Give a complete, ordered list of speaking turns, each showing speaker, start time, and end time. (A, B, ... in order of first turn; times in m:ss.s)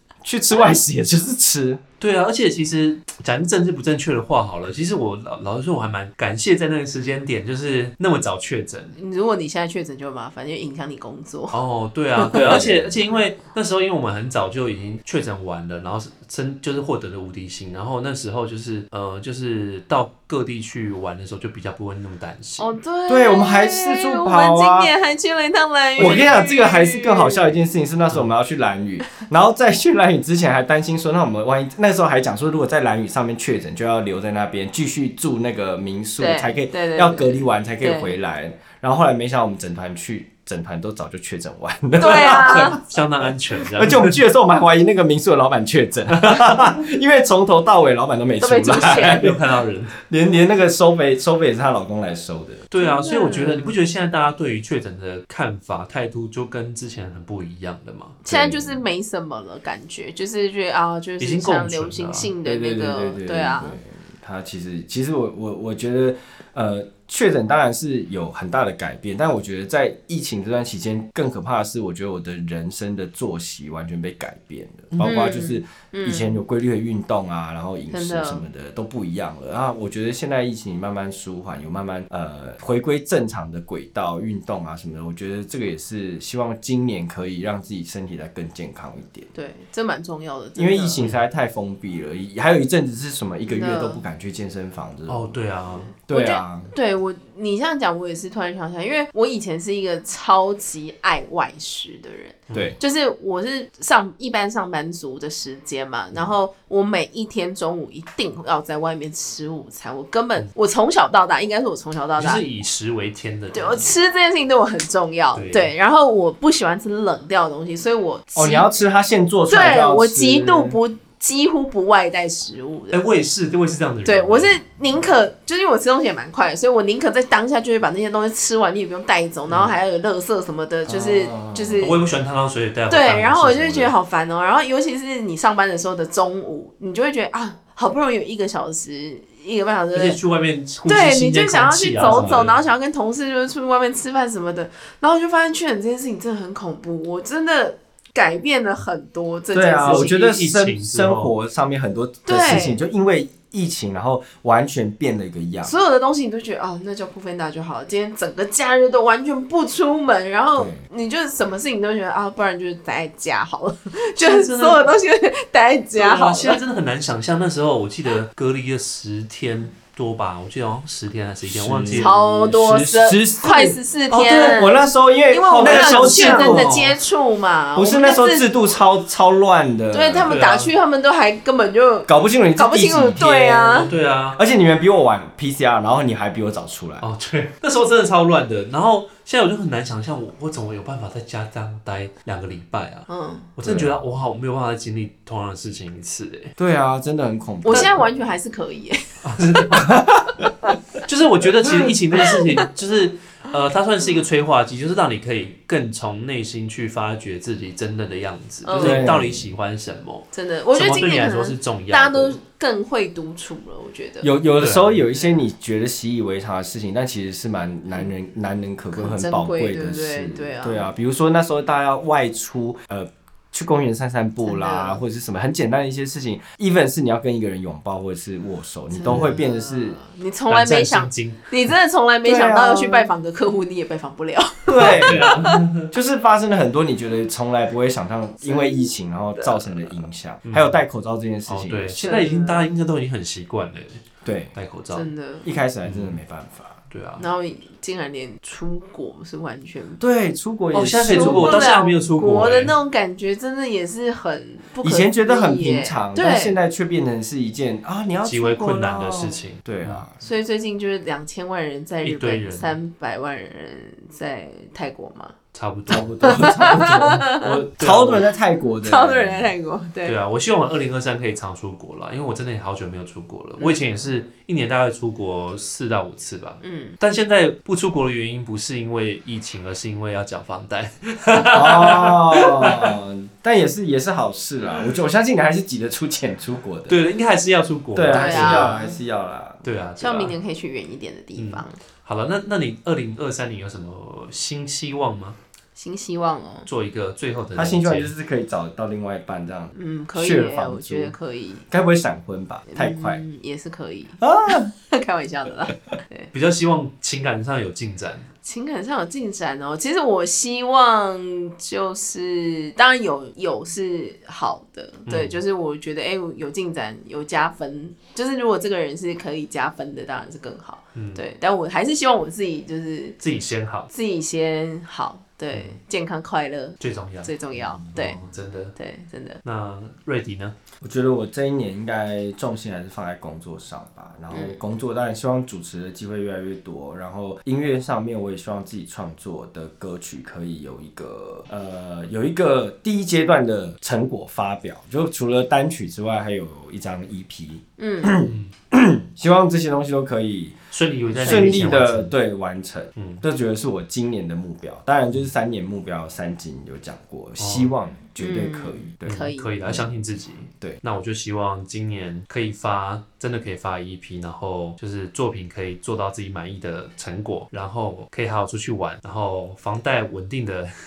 0:00.2-0:01.8 A
0:02.0-0:09.0 B
0:09.0-0:11.6 C
0:11.5-0:22.7 B
0:12.2-0:12.6 C
0:12.3-0:13.0 A
0:22.6-0:27.6 C
0:23.1-0:24.9 A
0:26.0-0:26.4 B
0:26.0-0:49.4 A
0:36.2-0:38.2 C
0:42.0-0:42.8 C
0:42.0-0:44.2 B
0:46.1-0:46.6 B
0:48.4-0:49.3 C
0:48.8-0:49.9 B
0:49.9-0:52.6 A
0:52.7-0:58.2 B
0:52.8-0:53.7 C
0:58.2-1:03.8 C
0:58.3-0:58.8 A
1:01.2-1:02.3 B
1:02.4-1:29.3 A
1:15.0-1:16.4 C
1:17.9-1:18.4 C
1:29.3-1:31.0 C
1:30.6-1:35.4 A
1:33.4-1:34.0 C
1:35.1-1:35.9 B
1:36.0-1:36.7 A
1:36.1-1:52.4 C
1:42.5-1:42.7 B
1:42.5-1:42.8 A
1:52.2-1:54.0 B
1:53.5-1:58.7 C
1:55.3-1:55.7 B
1:58.3-2:00.8 A
1:59.5-2:03.0 C
2:02.9-2:04.6 B
2:04.0-2:12.0 C
2:10.9-2:11.9 A
2:11.8-2:13.9 B
2:12.9-2:20.2 C
2:19.9-2:22.6 B
2:20.9-2:30.3 C
2:22.0-2:22.4 A
2:29.5-2:35.7 A
2:29.8-2:31.3 B
2:32.2-2:32.8 C
2:35.6-2:46.6 C
2:40.6-2:40.8 A
2:44.2-2:44.9 B
2:45.9-2:52.1 B
2:51.4-2:56.9 A
2:51.9-2:58.5 C
2:55.6-2:56.9 B
2:57.8-3:00.3 A
2:59.9-3:03.9 C
3:00.2-3:00.7 B
3:02.1-3:07.1 A
3:03.7-3:04.4 B
3:07.0-3:16.5 B
3:13.1-3:13.5 C
3:13.6-3:14.0 A
3:16.6-3:18.0 A
3:17.6-3:19.7 C
3:19.2-3:20.0 B
3:19.8-3:20.4 A
3:20.4-3:20.8 C
3:21.0-3:32.4 B
3:22.2-3:22.6 C
3:28.6-3:29.2 C
3:28.8-3:29.5 A
3:30.3-3:34.3 C
3:34.2-3:50.0 A
3:34.6-3:35.0 B
3:38.9-3:40.9 C
3:44.4-3:45.0 C
3:48.9-3:55.6 C
3:50.5-3:51.5 B
3:52.2-3:53.1 A
3:54.7-4:02.3 A
3:54.8-3:55.9 B
3:58.4-3:59.8 C
4:00.5-4:00.8 B
4:01.4-4:04.0 B
4:02.0-4:02.7 C
4:04.2-4:04.5 A
4:04.5-4:05.1 B
4:04.9-4:05.4 C
4:05.4-4:06.8 A
4:05.8-4:06.2 B
4:06.9-4:07.2 B
4:07.2-4:10.0 C
4:10.0-4:11.7 A
4:10.7-4:12.7 B
4:11.1-4:16.5 C
4:14.8-4:20.2 A
4:18.2-4:20.1 B
4:20.2-4:25.3 C
4:22.0-4:22.8 B
4:25.5-4:28.3 B
4:25.9-4:29.5 A
4:26.2-4:27.6 C
4:28.8-4:30.2 C
4:30.0-4:43.0 B
4:33.6-4:33.8 C
4:36.6-4:37.0 C
4:41.3-4:47.0 A
4:46.9-4:48.8 B
4:47.9-4:49.6 A
4:48.1-4:49.0 C
4:49.6-4:50.4 B
4:50.0-4:51.8 C
4:51.4-4:55.4 B
4:55.8-4:56.7 C
4:56.6-4:58.1 B
4:57.5-5:01.1 A
4:59.7-5:01.7 C
5:01.7-5:03.2 A
5:02.7-5:06.3 C
5:04.2-5:04.7 A
5:06.3-5:08.3 B
5:08.4-5:23.2 C
5:15.0-5:15.4 B
5:20.9-5:21.2 B
5:23.2-5:23.9 B
5:23.9-5:28.2 C
5:26.8-5:28.7 B
5:28.8-5:29.4 C
5:29.4-5:30.5 B
5:30.8-5:50.6 A
5:34.3-5:34.6 C
5:47.8-5:48.2 C
5:48.2-5:48.5 B
5:50.7-5:52.1 B
5:51.1-5:59.9 A
5:51.2-5:51.6 C
5:53.0-5:53.2 B
5:57.4-5:57.7 B
5:58.2-5:59.5 C
5:59.0-6:10.7 B